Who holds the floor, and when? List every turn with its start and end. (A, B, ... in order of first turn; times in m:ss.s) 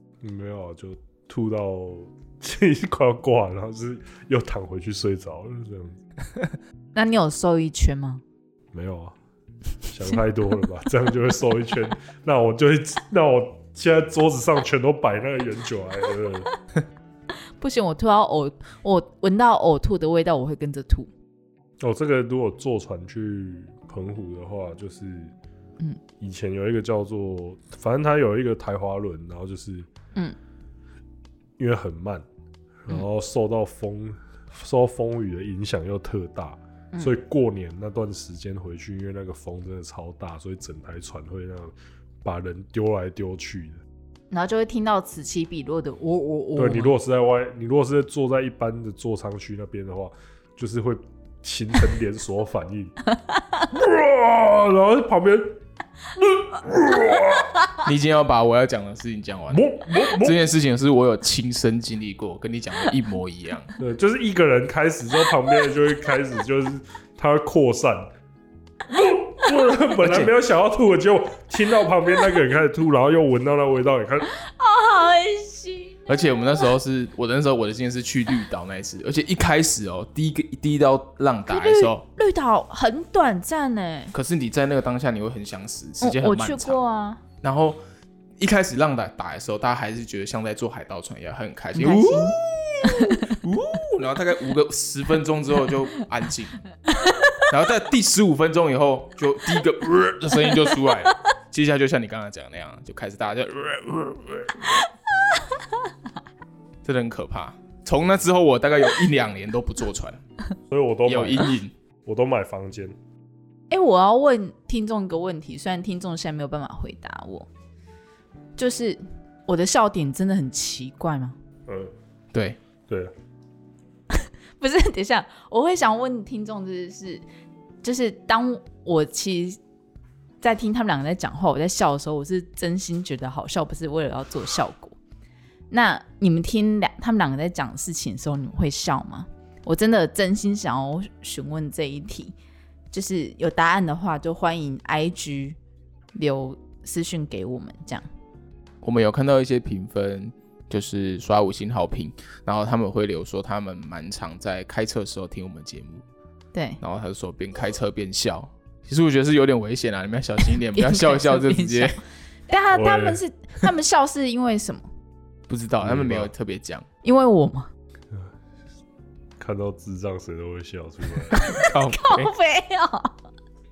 0:00.2-0:06.0 A
0:07.0-0:08.2 B
0:08.7-0:09.2 A
0:09.9-0:16.5 A
0:17.6-0:21.1 B
0:21.8-0:25.3 A
0:26.2-0:29.9 A
0:31.6-0:32.3 A
0:32.8-0:43.8 A
0:44.3-0:47.0 B
0:46.6-0:53.0 A
0:53.7-0:55.6 A
0:56.2-0:57.6 A
0:57.8-1:03.7 C
0:59.5-1:00.4 A
1:03.8-1:08.1 A
1:08.9-1:14.3 A
1:10.0-1:10.3 C
1:14.4-1:16.5 B
1:16.1-1:22.0 C
1:21.5-1:24.1 B
1:24.1-1:26.8 C
1:26.0-1:27.2 B
1:27.4-1:27.8 C
1:28.4-1:36.6 C
1:31.8-1:33.2 B
1:37.0-1:37.3 B
1:37.5-1:44.6 C
1:46.8-1:50.2 C
1:50.7-1:53.0 A
1:51.1-1:51.7 C
1:53.7-1:57.5 B
1:58.6-2:01.4 B
2:01.7-2:01.9 A
2:04.6-2:07.2 B
2:07.8-2:09.6 B
2:10.4-2:15.0 B
2:15.7-2:22.4 B
2:22.9-2:25.6 B
2:26.2-2:28.0 B
2:28.8-2:36.0 C
2:36.5-2:36.8 B
2:36.8-2:42.0 C
2:40.7-2:44.8 B
2:42.7-2:43.2 A
2:45.5-2:46.8 C
2:45.8-2:46.3 A
2:47.0-2:47.7 B
2:49.4-2:51.4 A
2:51.3-2:52.3 C
2:51.4-2:53.1 B